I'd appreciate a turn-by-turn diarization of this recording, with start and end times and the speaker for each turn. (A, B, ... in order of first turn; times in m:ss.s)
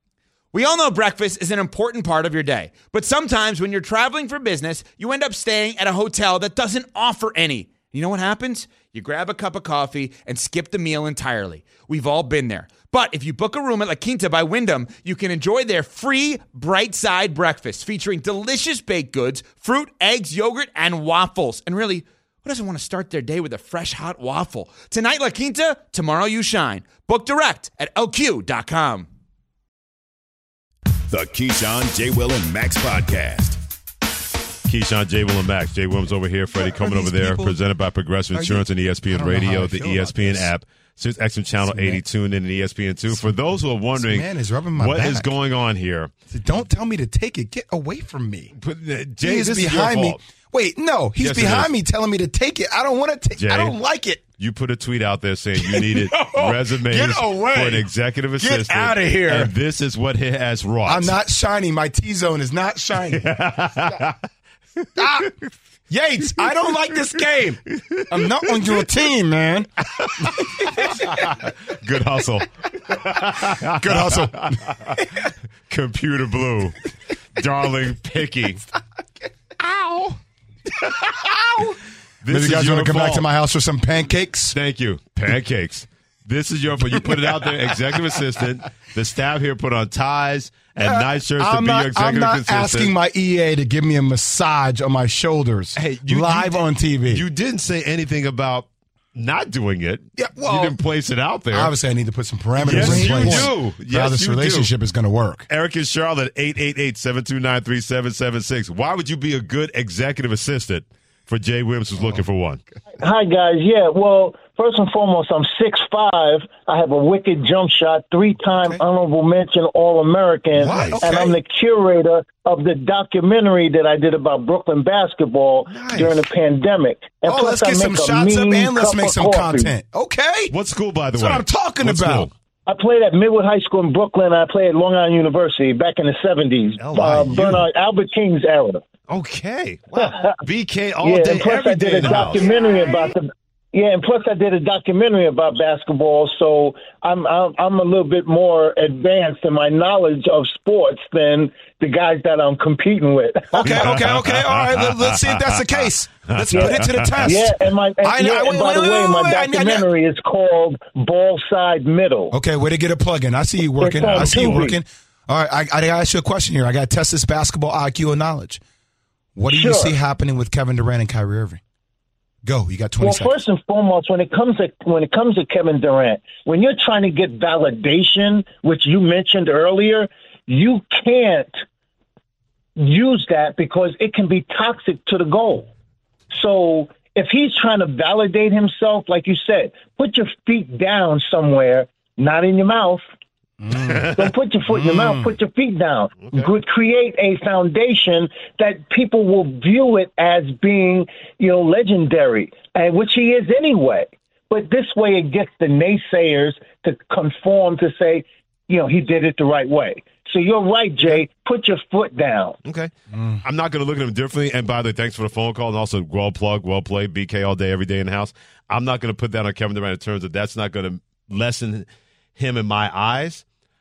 0:00.5-0:29.1 A
0:31.1-0:33.6 B
0:34.7-0:46.1 C
0:36.6-0:37.6 D
0:38.3-0:40.5 D
0:41.6-0:42.0 D
0:44.0-0:45.3 D
0:46.3-0:48.5 D
0:48.6-0:50.2 C
0:49.2-0:54.2 D
0:51.2-0:51.7 C
0:53.4-0:53.7 C
0:54.4-1:01.1 C
0:55.6-0:57.9 D
0:58.4-0:59.5 D
1:00.8-1:03.4 D
1:03.1-1:04.2 C
1:05.0-1:05.3 D
1:05.9-1:11.4 D
1:07.9-1:08.7 C
1:10.0-1:15.0 C
1:13.6-1:15.3 D
1:15.7-1:16.8 C
1:17.4-1:18.6 C
1:18.7-1:20.2 D
1:21.1-1:24.6 D
1:22.2-1:23.2 C
1:24.5-1:32.9 C
1:26.8-1:27.7 D
1:30.8-1:37.2 D
1:35.8-1:41.7 C
1:40.2-1:40.8 D
1:41.5-1:45.5 D
1:42.6-1:44.7 C
1:45.5-1:52.6 C
1:53.0-2:09.7 E
2:00.6-2:01.4 D
2:00.6-2:01.0 C
2:05.7-2:06.2 C
2:07.2-2:10.5 D
2:10.5-2:12.3 C
2:11.1-2:12.3 D
2:12.7-2:18.8 E
2:16.8-2:17.7 C
2:19.1-2:22.5 C
2:20.0-2:20.4 E
2:21.0-2:33.7 E
2:33.5-2:37.5 D
2:33.6-2:35.4 C
2:36.3-2:37.5 C
2:36.5-2:42.3 E
2:38.0-2:39.9 D
2:42.3-2:48.6 D
2:43.8-2:44.8 E
2:43.9-2:44.7 C
2:49.4-2:51.6 D
2:49.5-2:50.0 E
2:52.4-2:53.4 D
2:53.0-3:01.6 E
3:02.8-3:05.7 E
3:06.3-3:13.0 E
3:13.6-3:14.1 D
3:14.1-3:32.6 E
3:14.7-3:15.3 D
3:32.6-3:32.9 C
3:33.1-3:33.4 D
3:33.4-3:43.4 C